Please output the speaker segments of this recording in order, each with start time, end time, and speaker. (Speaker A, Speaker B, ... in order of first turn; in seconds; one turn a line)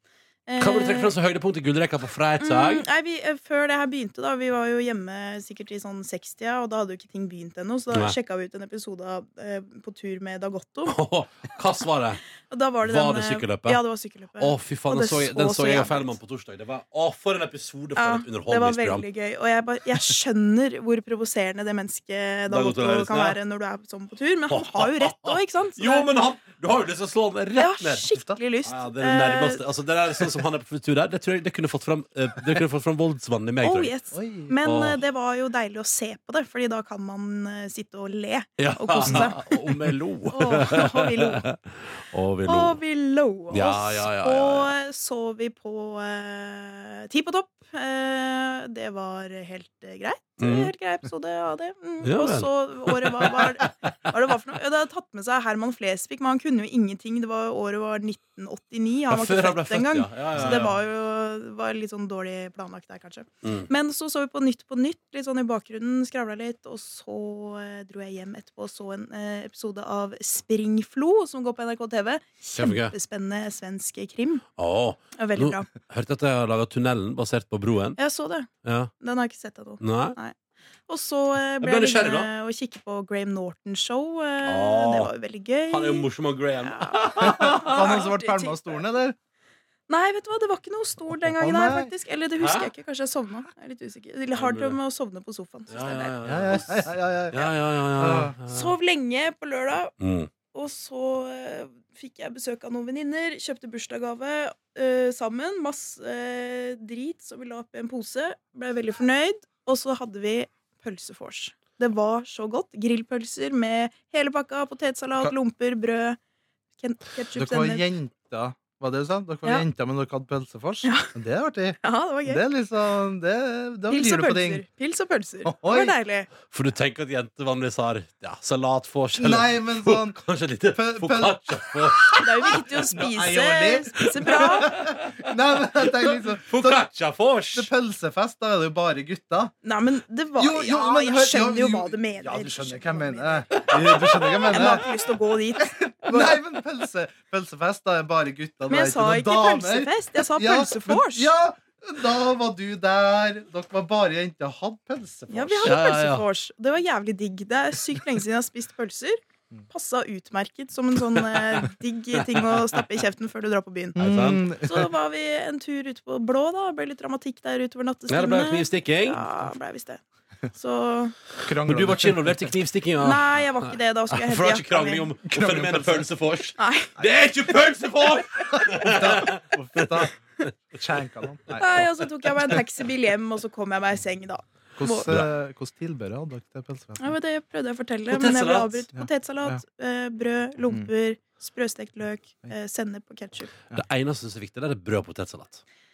Speaker A: 0.5-1.1
Speaker B: 0.6-2.9
Speaker A: 2.4-11.0
Speaker B: 10.9-12.2
Speaker A: 12.5-16.2
Speaker B: 12.8-13.8
Speaker B: 14.4-19.1
Speaker A: 18.0-26.1
Speaker B: 22.5-23.4
Speaker B: 24.5-28.1
Speaker A: 27.6-29.6
Speaker B: 28.6-33.9
Speaker A: 33.6-39.7
Speaker C: 34.1-34.5
Speaker B: 34.6-35.0
Speaker B: 38.6-42.8
Speaker A: 40.3-41.5
Speaker A: 42.5-74.4
Speaker B: 43.5-44.7
Speaker B: 50.4-50.7
Speaker B: 52.0-53.9
Speaker B: 59.1-60.7
Speaker C: 60.4-60.7
Speaker B: 63.4-63.7
Speaker B: 72.5-72.9
Speaker B: 74.6-78.0
Speaker A: 75.2-75.7
Speaker A: 78.0-78.5
Speaker B: 78.6-78.9
Speaker A: 79.0-80.4
Speaker B: 79.8-80.2
Speaker A: 80.9-86.1
Speaker B: 81.6-82.3
Speaker B: 84.4-85.1
Speaker B: 85.7-88.0
Speaker A: 86.6-88.9
Speaker C: 87.2-89.2
Speaker A: 89.9-96.1
Speaker C: 91.2-91.9
Speaker B: 92.4-92.7
Speaker B: 94.4-94.8
Speaker B: 95.7-98.8
Speaker C: 96.2-98.3
Speaker A: 98.5-99.9
Speaker B: 100.0-100.3
Speaker A: 100.5-116.2
Speaker A: 116.8-117.9
Speaker C: 117.4-124.7
Speaker A: 120.8-121.1
Speaker A: 121.8-122.5
Speaker A: 123.9-126.3
Speaker C: 125.4-126.0
Speaker B: 126.5-132.6
Speaker C: 129.2-130.2
Speaker C: 130.7-136.8
Speaker A: 132.2-134.8
Speaker B: 134.2-135.2
Speaker B: 135.8-137.7
Speaker C: 137.5-139.5
Speaker A: 139.6-146.3
Speaker C: 140.4-144.9
Speaker C: 145.6-155.8
Speaker A: 148.7-151.3
Speaker A: 155.3-164.0
Speaker B: 155.6-156.2
Speaker B: 162.2-162.8
Speaker B: 164.0-164.4
Speaker C: 164.0-164.9
Speaker A: 164.6-170.0
Speaker B: 168.1-169.2
Speaker A: 170.5-171.2
Speaker C: 171.4-172.6
Speaker B: 171.6-180.1
Speaker A: 173.0-175.1
Speaker C: 175.3-176.1
Speaker A: 176.6-176.9
Speaker C: 178.5-180.1
Speaker C: 180.7-181.9
Speaker B: 181.5-181.8
Speaker A: 181.6-185.1
Speaker C: 184.8-187.2
Speaker A: 187.0-193.5
Speaker B: 188.1-188.8
Speaker C: 188.9-189.6
Speaker B: 193.7-195.6